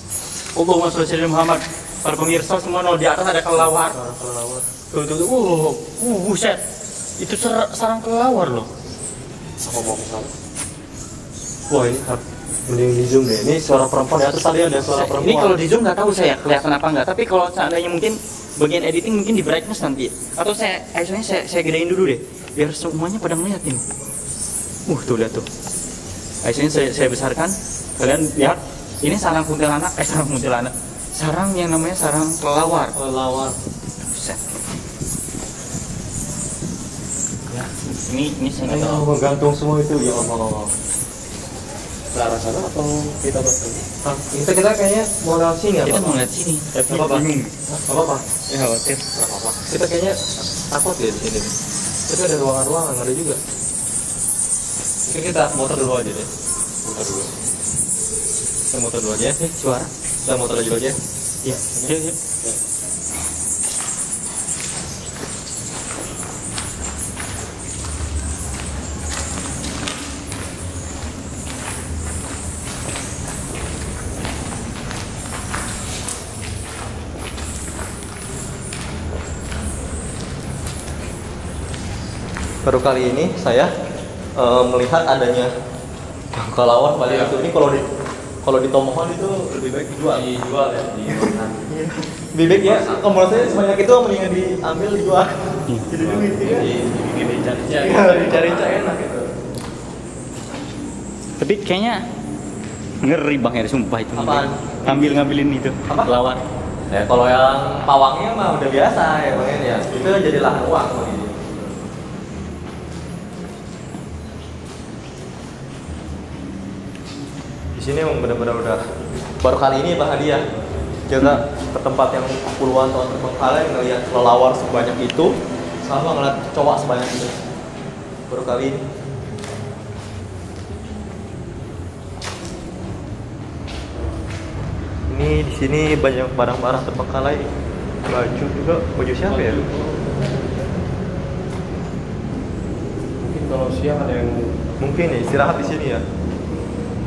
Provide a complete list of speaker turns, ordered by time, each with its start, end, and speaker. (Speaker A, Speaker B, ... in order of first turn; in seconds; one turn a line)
Speaker A: 0.6-4.0
Speaker B: 3.8-4.7
Speaker A: 4.9-6.6
Speaker A: 7.2-8.7
Speaker C: 9.7-10.3
Speaker B: 11.7-15.6
Speaker A: 14.9-23.8
Speaker A: 24.9-25.5
Speaker A: 26.4-32.9
Speaker B: 32.9-33.5
Speaker A: 34.0-34.4
Speaker A: 37.5-39.0
Speaker B: 38.6-40.7
Speaker C: 42.1-43.9
Speaker B: 44.0-46.2
Speaker A: 45.8-47.5
Speaker B: 46.7-51.5
Speaker B: 52.1-53.4
Speaker B: 55.1-56.3
Speaker C: 56.9-57.2
Speaker B: 58.7-59.4
Speaker A: 59.4-59.9
Speaker B: 60.2-61.0
Speaker A: 61.4-62.1
Speaker B: 61.5-61.9
Speaker B: 82.7-83.7
Speaker B: 84.4-85.5
Speaker B: 86.3-87.9
Speaker C: 87.1-87.4
Speaker B: 88.4-90.2
Speaker C: 90.1-91.6
Speaker B: 91.1-95.3
Speaker C: 92.6-93.4
Speaker B: 95.9-96.7
Speaker C: 96.0-98.8
Speaker B: 97.7-99.3
Speaker A: 101.4-102.0
Speaker A: 103.0-106.4
Speaker B: 104.2-105.2
Speaker B: 106.9-111.5
Speaker B: 117.8-118.8
Speaker B: 119.4-120.5
Speaker B: 121.1-125.3
Speaker B: 125.8-127.4
Speaker B: 128.3-128.8
Speaker B: 135.1-137.5
Speaker B: 138.1-139.6
Speaker C: 139.2-140.8
Speaker C: 143.2-144.6
Speaker B: 144.8-146.0